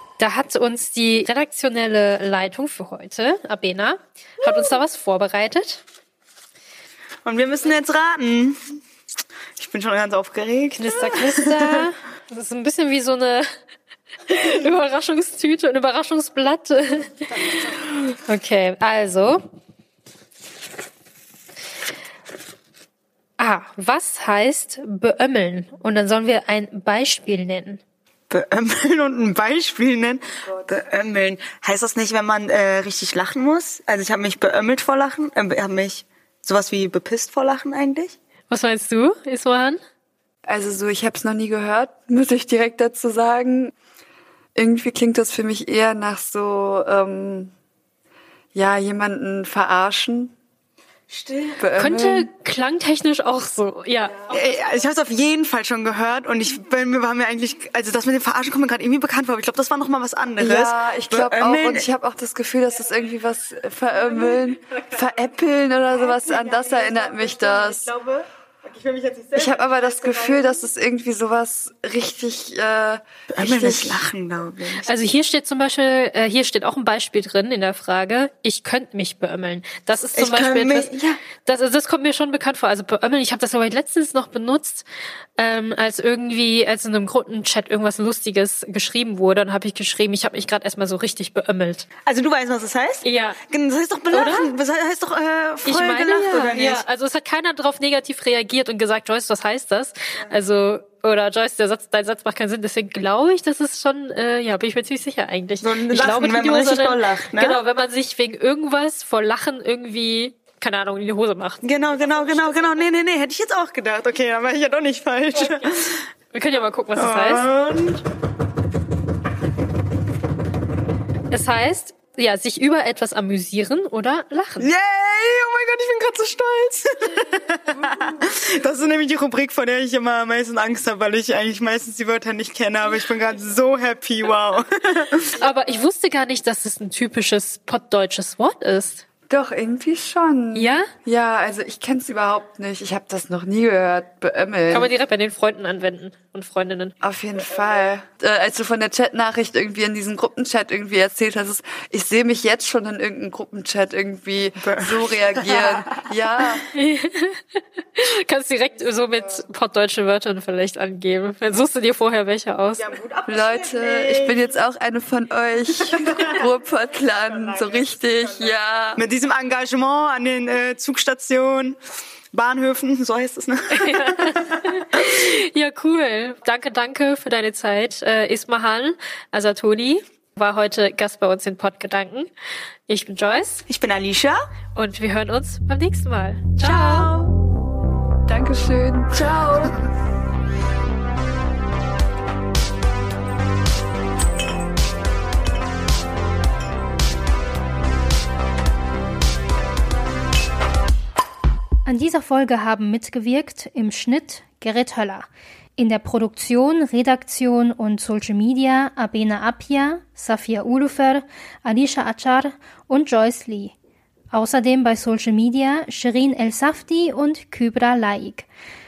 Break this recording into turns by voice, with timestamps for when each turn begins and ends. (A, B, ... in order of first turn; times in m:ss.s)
0:00.2-0:05.8 A
0:07.2-0:08.8 B
0:09.6-0:11.9 B
0:10.8-0:13.5 A
0:14.3-0:19.4 A
0:23.4-0:27.8 A
0:28.3-0:38.2 B
0:38.5-0:39.8 A
0:40.5-0:43.7 C
0:44.6-0:47.5 C
0:48.5-0:50.4 C
0:51.1-0:51.6 B
0:51.6-0:52.3 C
0:51.8-0:54.4 A
0:54.3-1:01.9 B
1:00.4-1:07.9 C
1:06.0-1:10.6 B
1:09.3-1:14.0 C
1:13.3-1:14.9 B
1:14.9-1:20.9 A
1:20.2-1:21.2 B
1:21.4-1:24.8 A
1:25.4-1:31.9 A
1:32.1-1:36.8 B
1:33.0-1:33.4 A
1:34.1-1:34.5 A
1:35.7-1:52.8 A
1:45.6-1:47.6 B
1:51.6-1:56.1 B
1:55.4-1:55.8 A
1:56.3-1:57.5 A
1:57.0-1:58.0 B
2:01.3-2:04.7 A
2:04.6-2:15.4 B
2:15.4-2:19.0 A
2:19.3-2:24.9 C
2:20.6-2:20.9 A
2:24.7-2:26.9 A
2:27.0-2:36.6 C
2:34.6-2:36.0 B
2:36.7-2:37.4 A
2:38.0-2:42.8 A
2:42.8-2:44.5 B
2:43.3-2:49.0 C
2:45.8-2:51.8 B
2:52.3-2:54.6 B
2:53.7-3:02.3 A
3:02.9-3:03.6 A
3:03.7-3:04.4 B
3:04.8-3:07.1 A
3:06.6-3:07.3 B
3:08.3-3:09.8 C
3:21.8-3:33.7 D
3:34.3-3:38.5 D